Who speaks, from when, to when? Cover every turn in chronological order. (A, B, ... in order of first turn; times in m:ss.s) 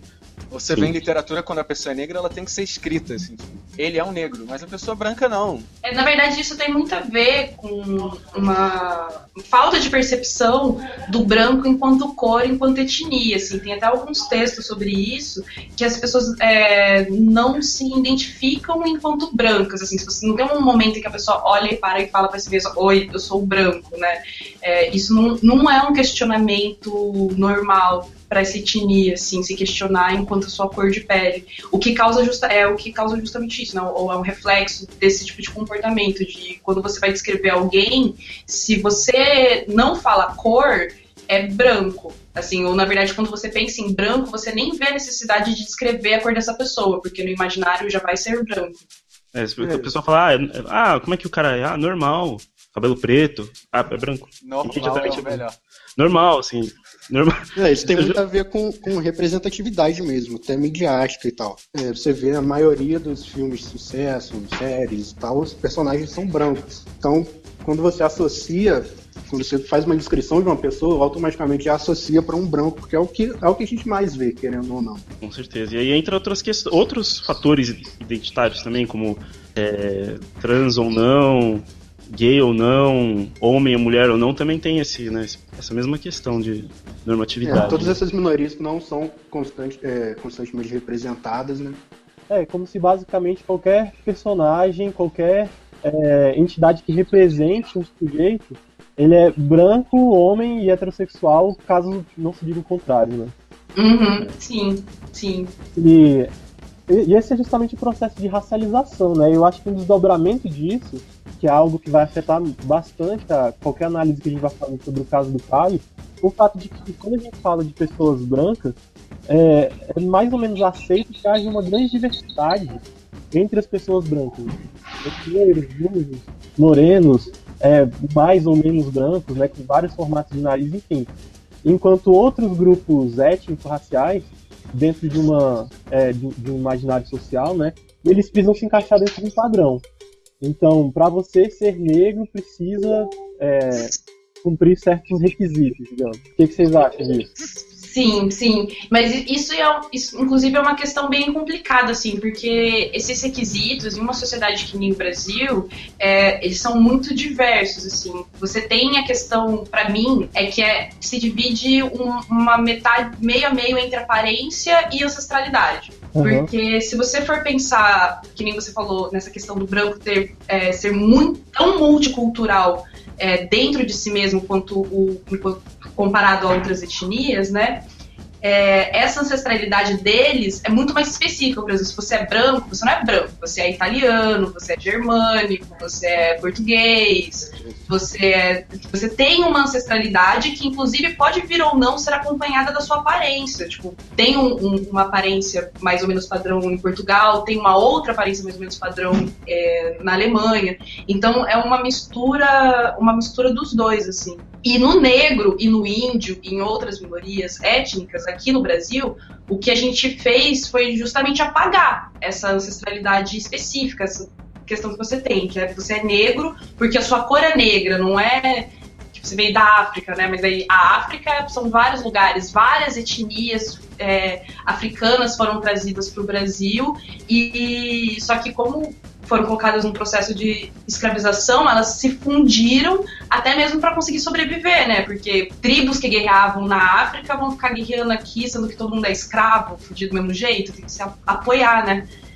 0:00.5-0:05.7 A
0:00.7-0:00.9 B
0:05.8-0:48.8 C
0:49.3-0:55.4 B
0:49.6-0:50.0 D
0:54.4-0:55.6 A
0:56.0-0:57.4 B
0:57.6-1:15.0 D
0:57.9-0:58.2 B
1:15.2-1:28.0 B
1:27.4-1:31.8 D
1:32.3-1:43.3 E
1:43.8-1:45.5 C
1:45.8-1:46.3 E
1:46.9-1:58.8 E
1:59.3-2:11.1 E
2:11.6-2:19.8 E
2:20.4-2:23.9 E
2:24.4-2:27.3 E
2:27.8-2:57.8 C
2:46.1-2:46.5 E
2:58.4-4:02.1 C